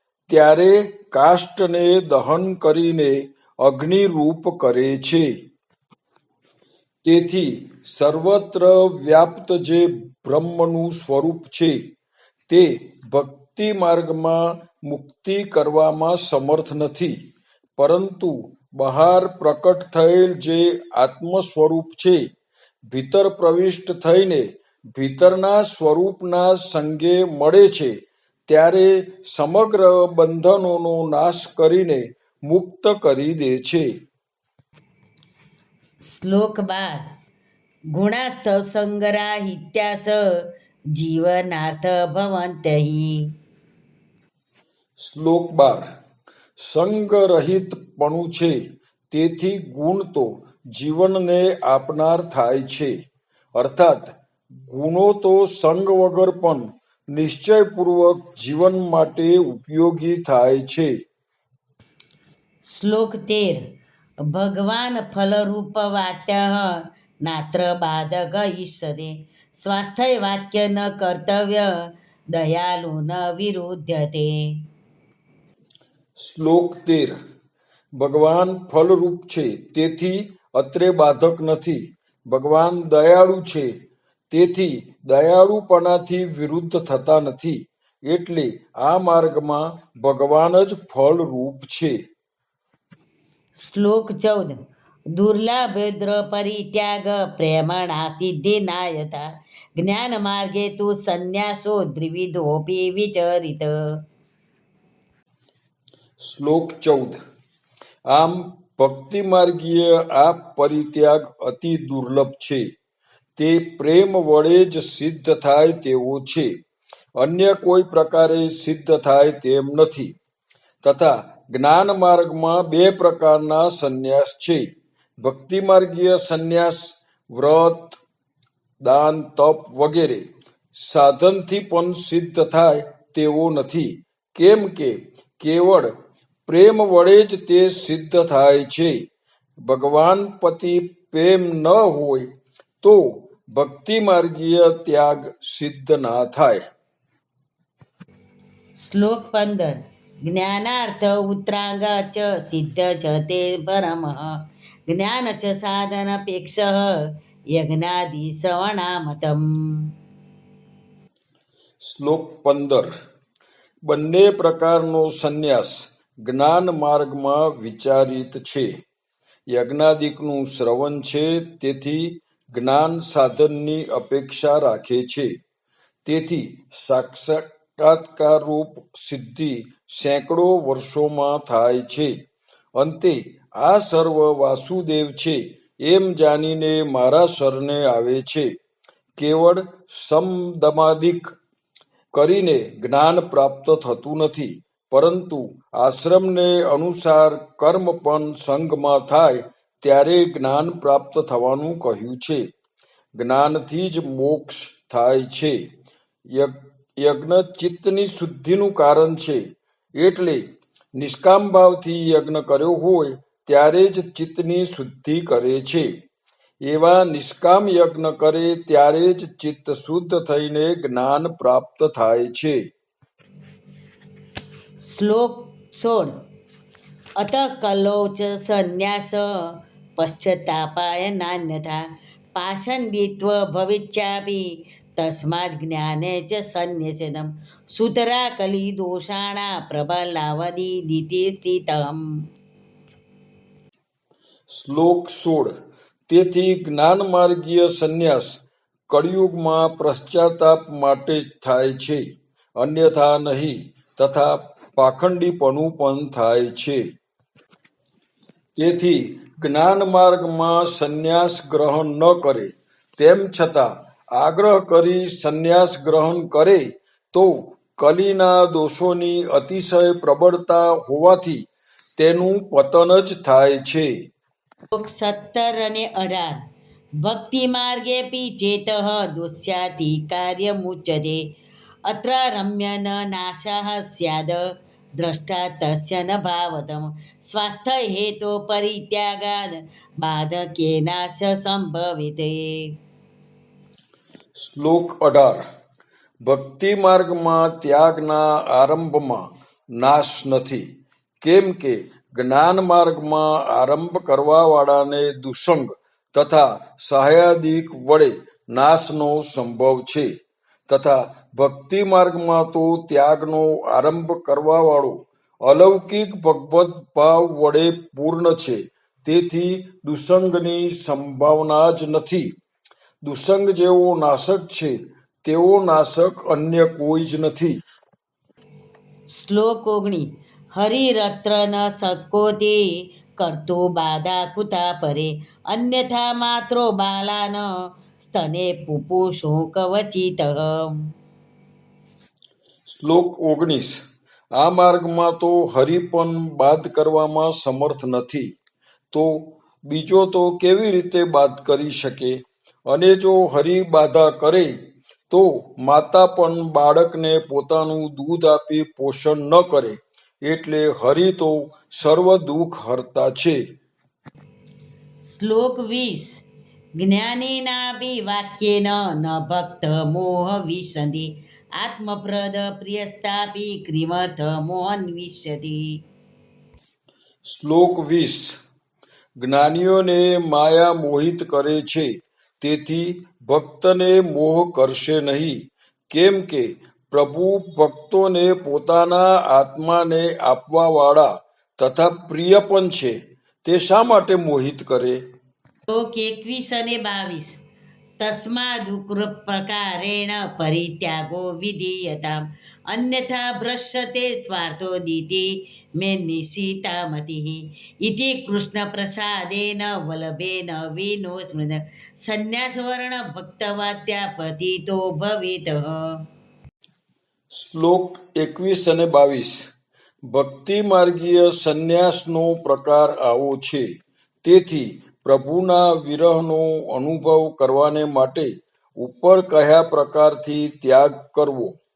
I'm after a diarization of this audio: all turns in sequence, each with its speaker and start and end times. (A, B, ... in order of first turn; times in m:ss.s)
0:00.3-0:05.3 A
0:07.0-0:11.8 A
0:12.5-0:17.2 A
0:17.8-0:22.2 A
0:22.9-0:28.0 A
0:28.5-0:33.9 A
0:36.0-0:37.0 B
0:37.9-0:40.2 B
0:40.9-0:43.3 B
0:45.0-0:45.8 A
0:46.6-0:48.6 A
0:49.1-0:52.9 A
0:53.5-1:00.9 A
1:02.6-1:03.6 B
1:04.3-1:11.7 B
1:12.3-1:14.6 B
1:16.2-1:17.2 A
1:18.0-1:23.7 A
1:24.3-1:32.0 A
1:33.6-1:34.6 B
1:35.1-1:43.7 B
1:46.2-1:47.2 A
1:48.1-1:52.7 A
1:53.4-1:56.5 A
1:57.2-2:00.1 A
2:00.8-2:04.7 A
2:05.2-2:08.0 A
2:08.8-2:15.9 A
2:16.5-2:19.0 A
2:19.6-2:22.3 A
2:22.8-2:26.6 A
2:28.8-2:34.4 B
2:34.9-2:36.9 B
2:37.5-2:39.9 B
2:41.8-2:42.9 A
2:43.8-2:48.7 A
2:49.5-2:55.4 A
2:56.0-3:02.2 A
3:02.7-3:08.5 A
3:09.2-3:11.3 A
3:12.1-3:22.4 A
3:23.2-3:25.7 A
3:26.3-3:29.4 A
3:30.0-3:30.4 A
3:30.9-3:35.9 A
3:36.6-3:42.6 A
3:44.8-3:46.1 B
3:47.2-3:49.3 B
3:50.0-4:02.0 B
4:04.5-4:05.5 A
4:06.1-4:12.0 A
4:12.6-4:16.8 A
4:18.6-4:31.4 A
4:32.0-4:33.9 A
4:34.7-4:36.4 B
4:37.0-4:41.2 B
4:41.9-4:44.4 B
4:45.0-4:52.7 B
4:54.4-4:55.4 A
4:56.2-5:00.6 A
5:01.2-5:10.1 A
5:10.7-5:22.3 A
5:23.0-5:27.6 A
5:29.1-5:40.8 B
5:42.7-5:43.8 A
5:44.3-5:48.3 A
5:48.9-5:54.5 A
5:55.1-6:03.4 A
6:05.0-6:06.2 B
6:06.8-6:15.8 B
6:17.2-6:18.4 A
6:19.2-6:35.0 A
6:35.7-6:37.4 B
6:38.0-6:56.0 B
6:57.3-6:59.5 A
7:00.1-7:03.7 A
7:04.2-7:11.6 A